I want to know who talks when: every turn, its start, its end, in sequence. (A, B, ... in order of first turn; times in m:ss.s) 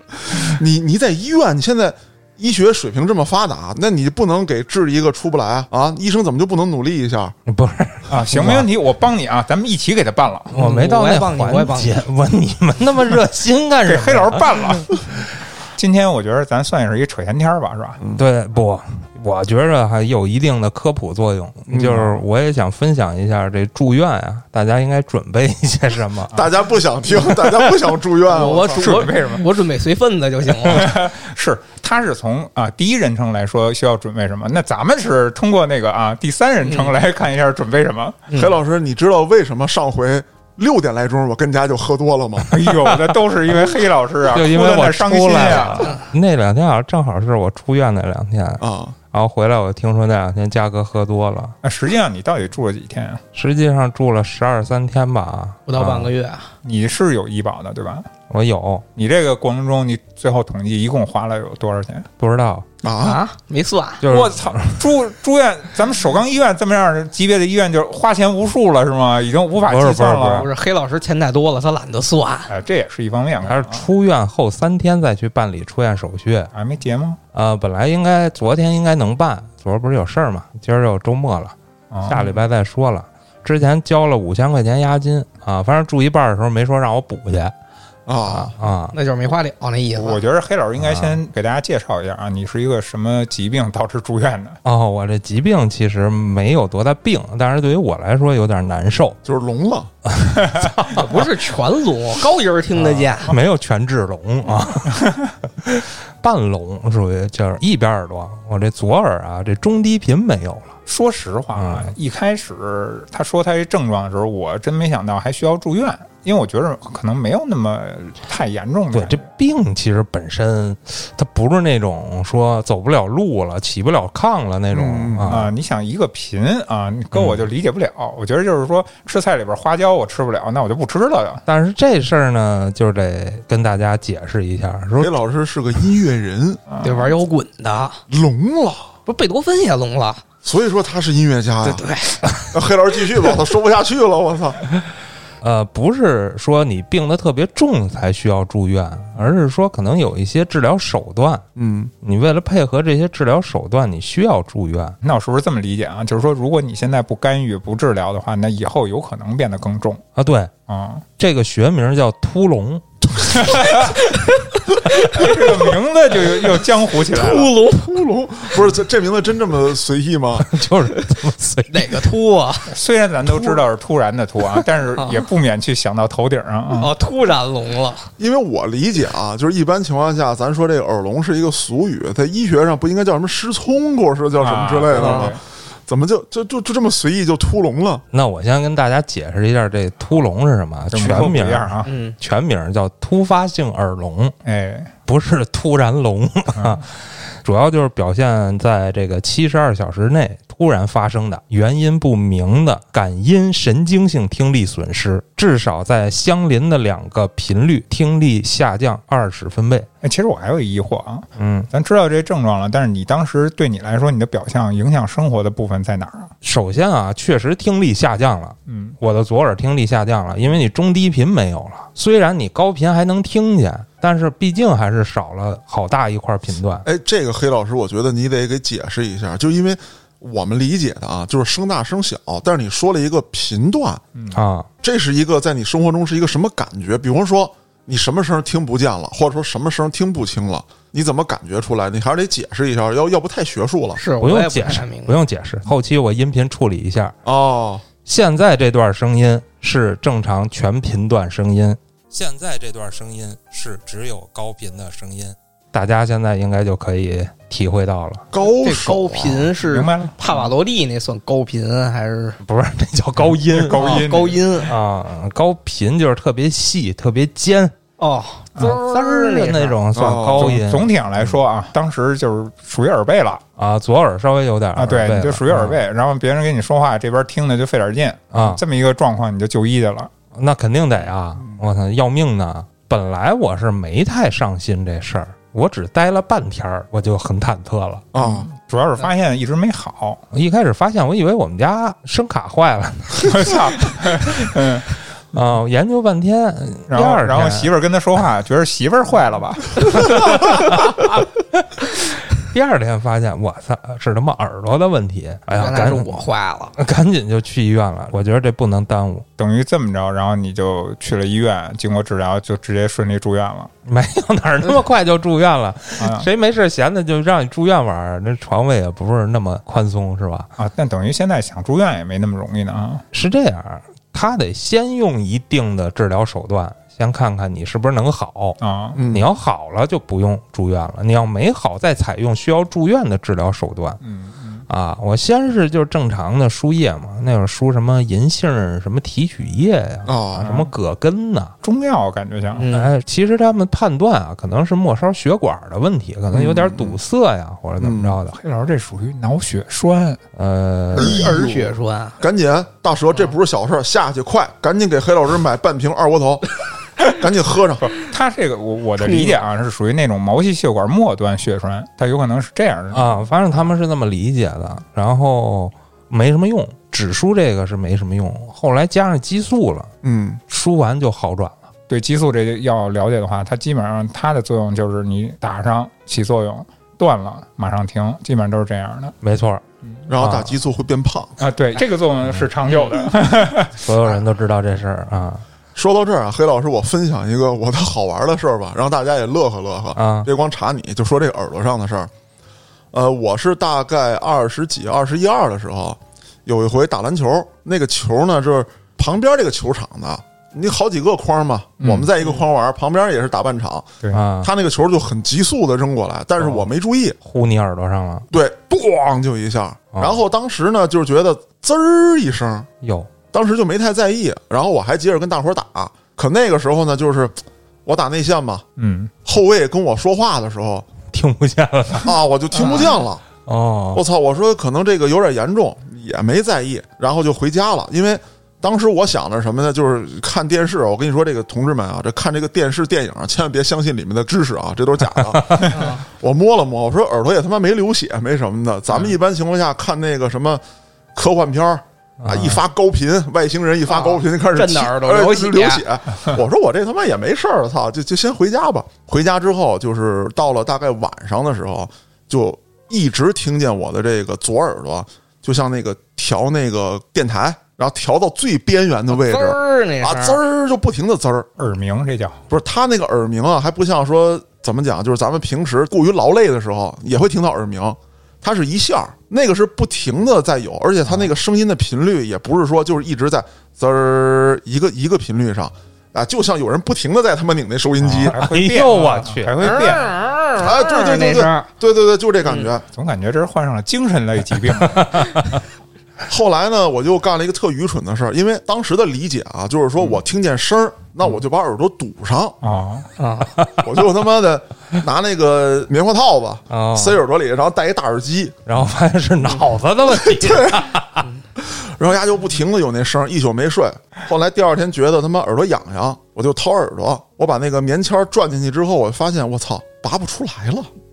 0:00.2-0:07.3 A
0:07.5-0:08.7 B
0:08.1-0:10.5 C
0:10.5-0:12.0 D
0:10.5-0:14.8 B
0:13.8-0:15.0 C
0:15.7-0:18.0 C
0:18.2-0:26.3 B
0:21.7-0:22.2 A
0:26.3-0:28.9 A
0:28.2-0:30.9 D
0:28.8-0:29.5 C
0:30.6-0:38.3 C
0:36.6-0:36.9 D
0:38.3-0:42.5 A
0:42.5-0:46.0 C
0:44.3-0:51.6 B
0:45.6-0:46.0 D
0:48.6-0:48.9 A
0:51.6-0:53.2 C
0:53.3-0:56.1 B
0:55.7-0:56.5 D
0:56.6-0:58.1 C
0:58.3-0:58.8 B
0:59.0-1:02.1 C
1:02.2-1:02.7 B
1:02.8-1:03.2 A
1:03.0-1:04.0 D
1:04.0-1:04.8 B
1:04.0-1:10.5 C
1:09.7-1:10.5 B
1:10.2-1:12.5 D
1:12.5-1:13.8 C
1:13.4-1:16.5 B
1:16.5-1:17.2 C
1:17.3-1:21.5 B
1:21.9-1:22.4 C
1:22.1-1:27.5 B
1:28.1-1:28.5 A
1:28.3-1:29.0 B
1:28.9-1:30.2 D
1:29.9-1:34.6 C
1:30.8-1:31.2 B
1:34.6-1:39.2 B
1:39.2-1:39.9 A
1:40.1-1:41.3 B
1:40.9-1:43.3 D
1:42.7-1:45.1 B
1:44.9-1:45.3 C
1:45.6-1:50.8 B
1:50.9-1:59.2 C
1:51.6-1:51.9 B
1:58.9-2:05.5 B
2:04.7-2:05.4 A
2:05.2-2:11.4 C
2:07.1-2:07.4 B
2:11.5-2:15.1 B
2:15.0-2:16.6 A
2:16.7-2:17.1 C
2:16.8-2:18.0 D
2:18.1-2:18.9 A
2:19.1-2:20.2 D
2:20.4-2:21.8 A
2:21.6-2:22.5 D
2:22.5-2:24.6 A
2:25.4-2:31.4 B
2:31.6-2:31.9 A
2:32.0-2:35.0 B
2:35.0-2:40.0 C
2:40.2-2:40.5 B
2:40.7-2:41.0 C
2:41.2-2:43.5 B
2:43.4-2:43.9 C
2:43.8-2:45.6 D
2:44.9-2:47.6 C
2:47.0-2:48.0 D
2:47.8-2:50.5 A
2:50.4-2:52.1 B
2:51.7-2:52.7 D
2:52.7-2:56.9 C
2:54.9-2:55.2 D
2:56.8-2:58.1 D
2:58.2-3:08.0 A
3:04.4-3:05.4 C
3:04.9-3:05.3 D
3:08.1-3:14.3 B
3:10.9-3:11.9 C
3:11.8-3:12.2 D
3:14.4-3:14.9 C
3:15.1-3:29.9 B
3:16.6-3:16.8 C
3:30.0-3:36.3 C
3:31.4-3:31.7 B
3:36.4-3:46.9 B
3:38.7-3:39.0 C
3:46.8-3:54.0 A
3:54.1-3:54.4 C
3:54.3-3:54.7 B
3:54.8-4:04.0 A
4:04.0-4:05.1 D
4:04.2-4:07.2 B
4:07.2-4:07.8 A
4:08.0-4:18.2 B
4:18.3-4:19.5 A
4:18.4-4:22.4 D
4:19.6-4:20.4 C
4:22.4-4:27.7 B
4:23.4-4:24.4 C
4:23.7-4:24.8 D
4:28.0-4:29.8 D
4:28.6-4:28.8 C
4:28.7-4:30.9 B
4:29.9-4:30.6 A
4:30.4-4:33.4 C
4:33.6-4:35.8 B
4:34.8-4:40.1 C
4:38.3-4:38.6 B
4:40.3-4:48.1 B
4:48.1-4:48.5 A
4:48.1-4:50.2 C
4:50.3-4:54.4 B
4:53.2-4:54.9 C
4:55.3-4:57.7 B
4:56.9-5:00.4 C
4:59.8-5:06.2 B
5:05.6-5:06.8 D
5:06.8-5:09.2 B
5:09.4-5:13.7 C
5:13.8-5:20.5 B
5:16.0-5:16.3 C
5:20.6-5:23.0 C
5:23.1-5:28.6 B
5:28.6-5:29.0 C
5:29.0-5:29.3 A
5:29.1-5:34.0 B
5:34.0-5:34.6 C
5:34.7-5:41.5 B
5:40.1-5:40.5 A
5:40.4-5:40.7 C
5:41.6-5:42.7 C
5:42.6-5:42.9 D
5:42.7-5:48.4 B
5:46.3-5:47.0 A
5:47.8-5:48.2 A
5:48.3-5:50.2 C
5:50.4-5:51.2 B
5:50.9-5:52.2 D
5:50.9-5:56.5 A
5:57.1-5:57.9 A
5:57.8-6:03.2 C
5:59.0-5:59.4 D
6:02.9-6:09.9 B
6:10.0-6:10.4 A
6:10.5-6:11.7 B
6:11.9-6:19.2 C
6:19.2-6:19.6 B
6:20.1-6:21.3 A
6:20.2-6:20.5 B
6:21.4-6:23.8 C
6:22.7-6:23.0 D
6:23.8-6:25.4 B
6:25.8-6:32.1 A
6:30.0-6:30.3 B
6:32.9-6:47.2 A
6:41.8-6:42.1 C
6:44.1-6:44.5 B
6:46.4-6:46.7 B
6:47.2-6:48.3 B
6:48.3-6:52.7 A
6:49.9-6:50.2 B
6:52.8-6:53.1 B
6:53.3-6:58.6 A
6:58.8-6:59.1 C
6:59.2-7:00.9 A
7:01.1-7:02.1 B
7:02.0-7:03.2 A
7:03.5-7:04.0 B
7:03.9-7:20.6 A
7:15.3-7:15.7 B
7:15.7-7:16.0 D
7:21.1-7:41.5 A
7:22.2-7:22.6 B
7:23.9-7:25.8 D
7:39.1-7:40.4 D
7:41.6-7:42.4 C
7:42.5-7:58.4 A
7:58.0-8:00.2 C
7:58.2-7:59.8 B
7:59.6-8:01.7 D
8:00.6-8:02.8 A
8:02.9-8:05.2 C
8:04.8-8:05.4 B
8:06.3-8:12.6 A
8:12.6-8:13.1 C
8:13.2-8:13.5 D
8:13.6-8:13.8 B
8:13.8-8:18.6 A
8:16.7-8:17.2 B
8:18.6-8:21.2 B
8:20.1-8:20.9 A
8:21.6-8:30.9 A